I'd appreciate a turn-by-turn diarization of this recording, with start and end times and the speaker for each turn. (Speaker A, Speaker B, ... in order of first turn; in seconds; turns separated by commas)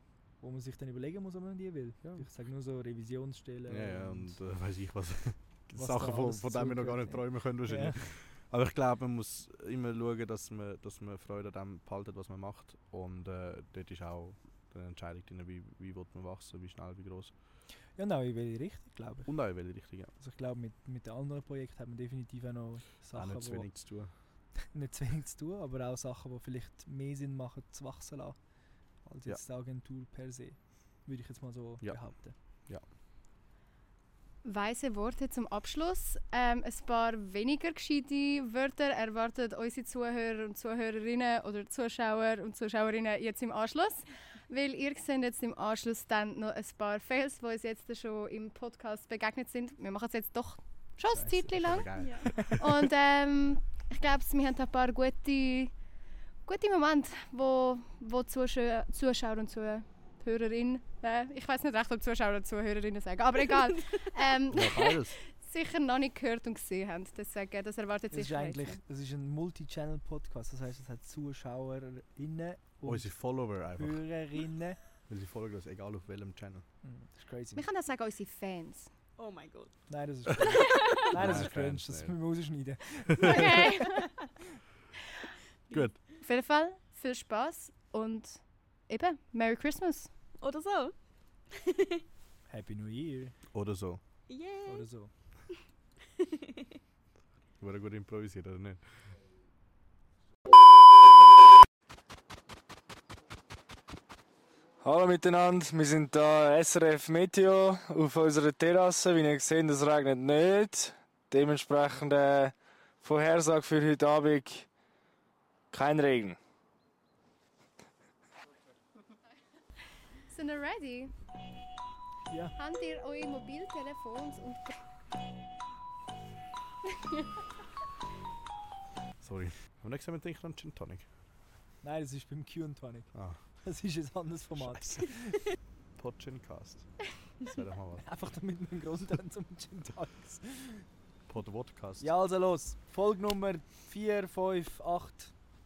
Speaker A: 0.4-4.4, Speaker B: 3.7-17.3, Speaker A: 5.8-8.0, Speaker A: 17.9-19.4, Speaker B: 19.3-20.1, Speaker A: 20.1-23.8, Speaker B: 23.1-24.1, Speaker A: 24.6-28.4, Speaker A: 29.0-32.4, Speaker B: 31.8-32.1, Speaker C: 34.4-51.9, Speaker A: 51.1-52.7, Speaker B: 51.5-52.6, Speaker D: 52.0-52.3, Speaker C: 52.5-55.7, Speaker C: 56.5-68.8, Speaker B: 64.5-65.2, Speaker A: 68.1-74.8, Speaker B: 72.8-74.0, Speaker B: 75.1-76.6, Speaker A: 76.8-77.6, Speaker C: 77.5-78.9, Speaker D: 79.2-79.8, Speaker A: 79.9-83.8, Speaker D: 80.6-81.0, Speaker B: 81.1-82.2, Speaker C: 83.2-84.1, Speaker B: 85.7-86.0, Speaker C: 86.2-90.1, Speaker D: 90.4-90.9, Speaker D: 91.5-92.0, Speaker A: 92.5-93.3, Speaker B: 93.5-94.0, Speaker D: 94.3-94.9, Speaker A: 94.7-95.1, Speaker B: 97.6-99.0, Speaker E: 104.8-114.7, Speaker E: 115.7-116.4, Speaker C: 120.3-121.1, Speaker A: 122.3-122.5, Speaker C: 122.6-124.8, Speaker B: 129.2-131.1, Speaker A: 131.8-135.4, Speaker B: 133.1-133.4, Speaker B: 134.6-135.0, Speaker B: 136.0-136.9, Speaker B: 137.4-138.1, Speaker A: 138.0-140.9, Speaker B: 141.3-142.1, Speaker A: 142.0-145.3